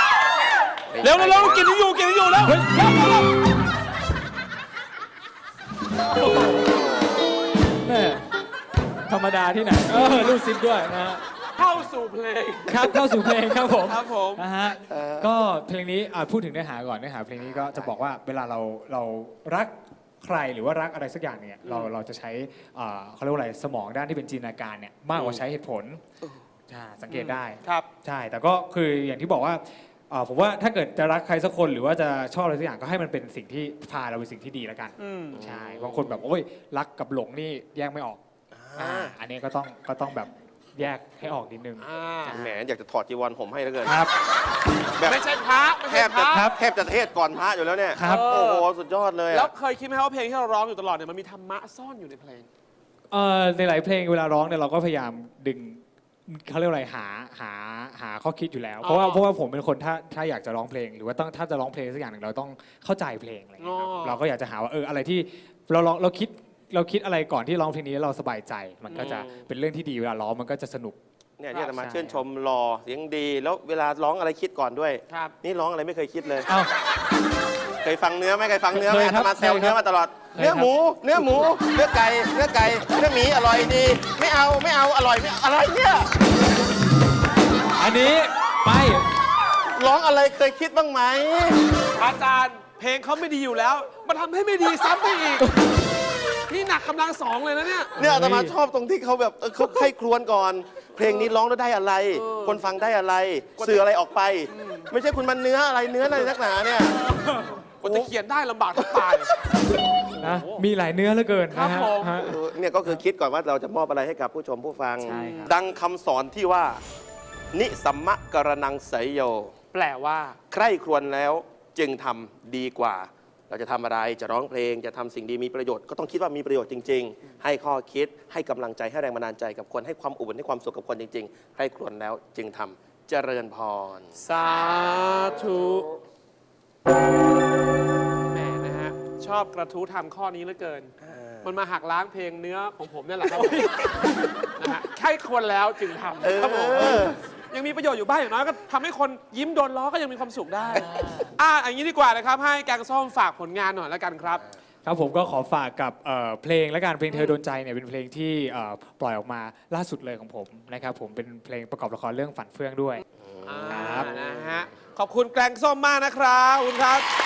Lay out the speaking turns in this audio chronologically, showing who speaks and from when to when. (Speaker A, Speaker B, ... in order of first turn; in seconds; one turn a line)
Speaker A: 0.9-1.7
Speaker B: 1.0-3.3
Speaker C: 2.4-3.2
Speaker C: 6.2-6.7
Speaker C: 7.8-8.2
Speaker C: 9.1-11.2
Speaker B: 10.0-10.3
Speaker B: 11.6-14.4
Speaker C: 12.7-26.0
Speaker A: 14.9-15.3
Speaker A: 17.4-18.0
Speaker B: 21.6-21.9
Speaker A: 25.1-25.4
Speaker C: 26.7-38.2
Speaker B: 27.1-27.9
Speaker B: 35.0-35.4
Speaker A: 35.3-36.2
Speaker A: 38.5-39.1
Speaker C: 38.8-42.6
Speaker B: 41.8-42.3
Speaker A: 42.3-44.0
Speaker C: 43.8-44.1
Speaker B: 45.0-46.5
Speaker A: 45.9-49.5
Speaker C: 46.3-46.5
Speaker B: 48.0-48.7
Speaker C: 48.0-48.3
Speaker B: 49.3-52.5
Speaker C: 53.1-71.0
Speaker B: 58.8-59.2
Speaker B: 63.6-64.2
Speaker B: 68.9-69.2
Speaker A: 68.9-69.3
Speaker A: 71.4-76.5
Speaker C: 71.7-72.2
Speaker B: 75.1-75.3
Speaker A: 77.8-86.1
Speaker C: 78.7-79.8
Speaker C: 80.3-81.5
Speaker C: 87.8-89.0
Speaker A: 89.6-91.6
Speaker B: 91.9-95.5
Speaker B: 96.5-98.0
Speaker A: 98.0-107.0
Speaker C: 98.0-98.5
Speaker B: 102.2-102.6
Speaker B: 103.6-103.8
Speaker B: 104.5-104.9
Speaker B: 107.8-109.3
Speaker A: 108.9-109.2
Speaker B: 110.2-110.6
Speaker C: 110.2-112.3
Speaker B: 111.5-112.3
Speaker A: 112.2-116.8
Speaker B: 115.0-115.5
Speaker C: 115.0-115.5
Speaker A: 117.5-119.5
Speaker B: 119.7-120.4
Speaker A: 120.5-134.2
Speaker B: 134.2-135.9
Speaker B: 138.3-140.9
Speaker A: 141.0-141.5
Speaker B: 141.4-144.0
Speaker A: 143.4-143.7
Speaker B: 144.6-154.4
Speaker A: 146.2-147.2
Speaker C: 150.8-151.1
Speaker C: 154.8-163.0
Speaker B: 157.1-157.3
Speaker A: 163.2-164.6
Speaker B: 163.4-167.0
Speaker C: 163.7-164.1